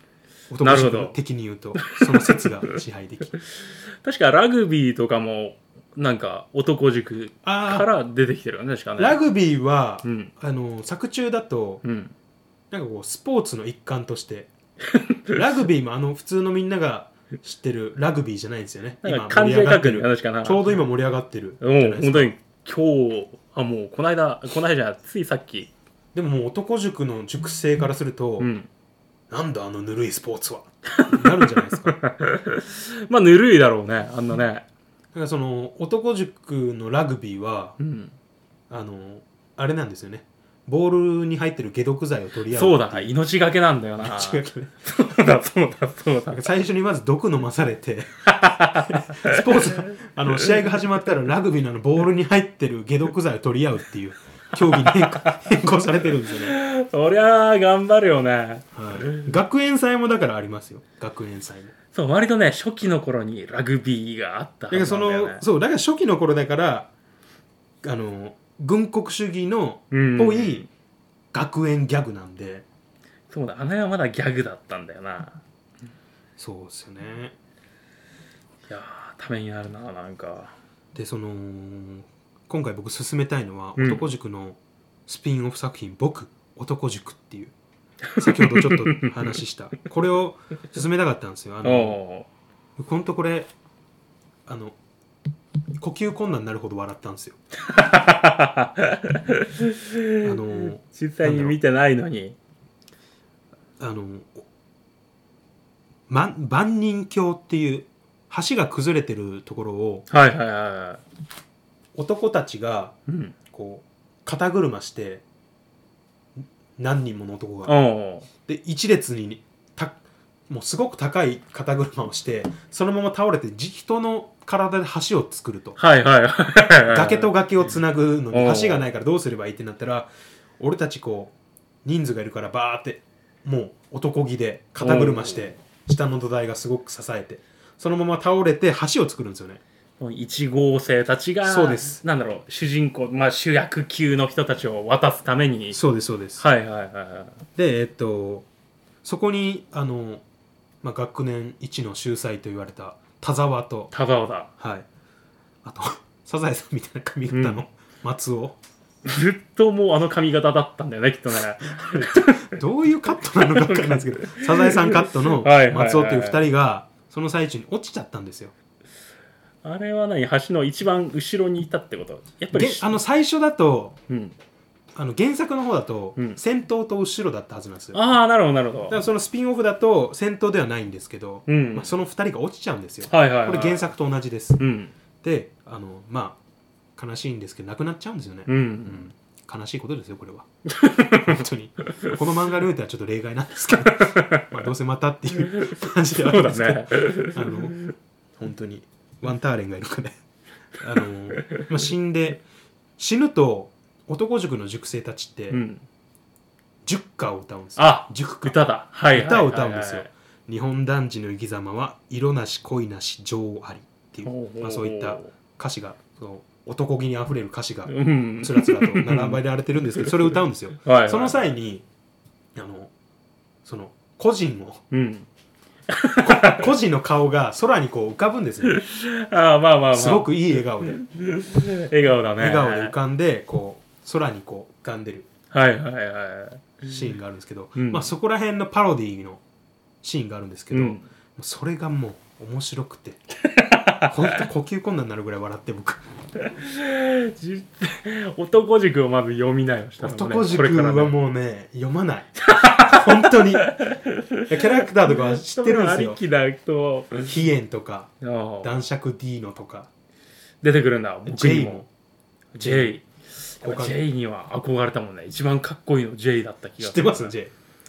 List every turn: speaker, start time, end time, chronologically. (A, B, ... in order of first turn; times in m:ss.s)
0:00.5-0:03.4 A
0:00.6-0:01.2 B
0:02.0-0:02.5 B
0:04.0-0:09.2 B
0:07.4-0:07.9 A
0:09.0-0:11.8 A
0:10.0-0:10.3 B
0:11.8-0:12.1 B
0:12.7-0:14.5 A
0:14.9-0:15.4 B
0:15.3-0:22.4 A
0:19.0-0:20.9 B
0:21.6-0:25.7 B
0:26.1-0:28.5 A
0:28.4-0:28.7 B
0:29.3-0:32.0 A
0:30.9-0:34.7 B
0:35.1-0:37.8 A
0:37.8-0:38.2 B
0:38.7-0:43.1 A
0:42.5-0:46.5 B
0:44.0-0:44.7 A
0:46.3-0:56.6 A
0:48.3-0:49.8 B
0:54.7-0:55.4 B
0:56.2-0:59.3 B
0:58.7-1:01.7 A
1:01.9-1:05.4 B
1:04.7-1:06.9 A
1:07.8-1:10.7 A
1:09.9-1:10.7 B
1:11.3-1:12.6 A
1:13.3-1:15.4 B
1:16.4-1:17.4 A
1:18.7-1:20.6 B
1:20.9-1:27.5 A
1:23.8-1:24.1 B
1:28.2-1:29.4 B
1:28.2-1:32.0 A
1:31.6-1:32.3 B
1:32.8-1:33.5 A
1:34.5-1:34.8 A
1:35.8-1:37.4 A
1:37.6-1:42.4 B
1:40.2-1:41.6 A
1:43.8-1:44.4 A
1:46.1-1:50.1 A
1:50.1-1:51.0 B
1:52.0-1:53.0 A
1:53.1-1:53.4 B
1:53.5-1:55.2 A
1:56.8-1:57.8 A
1:57.7-1:58.3 B
1:58.4-2:05.8 A
2:05.8-2:07.3 B
2:06.9-2:11.3 A
2:08.3-2:08.9 B
2:11.8-2:19.6 A
2:14.8-2:15.5 B
2:20.0-2:25.8 B
2:21.4-2:22.0 A
2:25.7-2:26.4 A
2:26.4-2:27.4 B
2:27.6-2:28.5 A
2:29.0-2:30.2 A
2:30.8-2:33.9 A
2:33.9-2:34.5 B
2:34.6-2:34.9 A
2:35.6-2:38.6 A
2:37.3-2:37.6 B
2:39.0-2:42.5 B
2:41.9-2:48.5 A
2:43.4-2:46.4 B
2:49.6-2:52.9 B
2:52.5-2:54.0 A
2:54.1-2:54.4 B
2:55.0-2:58.0 A
2:57.9-2:59.0 B
2:58.9-3:04.6 A
3:01.5-3:01.9 B
3:03.1-3:03.9 B
3:04.6-3:04.9 B
3:05.2-3:06.4 A
3:07.0-3:10.5 A
3:08.5-3:09.1 B
3:10.7-3:11.4 B
3:11.1-3:17.8 A
3:13.8-3:14.6 B
3:15.6-3:17.8 B
3:18.4-3:20.2 A
3:20.8-3:22.4 A
3:23.0-3:25.6 A
3:25.5-3:25.8 B
3:26.8-3:28.6 A
3:27.8-3:30.1 B
3:29.1-3:41.9 A
3:34.2-3:35.3 B
3:37.9-3:41.5 B
3:42.6-3:42.9 A
3:43.6-3:44.8 A
3:44.9-3:45.3 B
3:45.9-3:46.7 B
3:46.2-3:48.8 A
3:48.6-3:52.9 B
3:49.9-3:51.0 A
3:52.4-3:55.3 A
3:55.5-3:56.9 B
3:56.8-3:59.4 A
3:57.8-3:58.1 B
4:00.0-4:03.2 A
4:00.7-4:01.0 B
4:03.4-4:04.5 B
4:04.0-4:06.0 A
4:06.4-4:11.2 B
4:10.0-4:13.9 A
4:12.4-4:17.3 B
4:14.4-4:16.2 A
4:17.2-4:19.9 A
4:18.2-4:18.7 B
4:20.6-4:21.8 B
4:21.2-4:21.9 A
4:22.6-4:27.3 B
4:22.6-4:23.0 A
4:23.6-4:24.0 A
4:26.8-4:27.5 A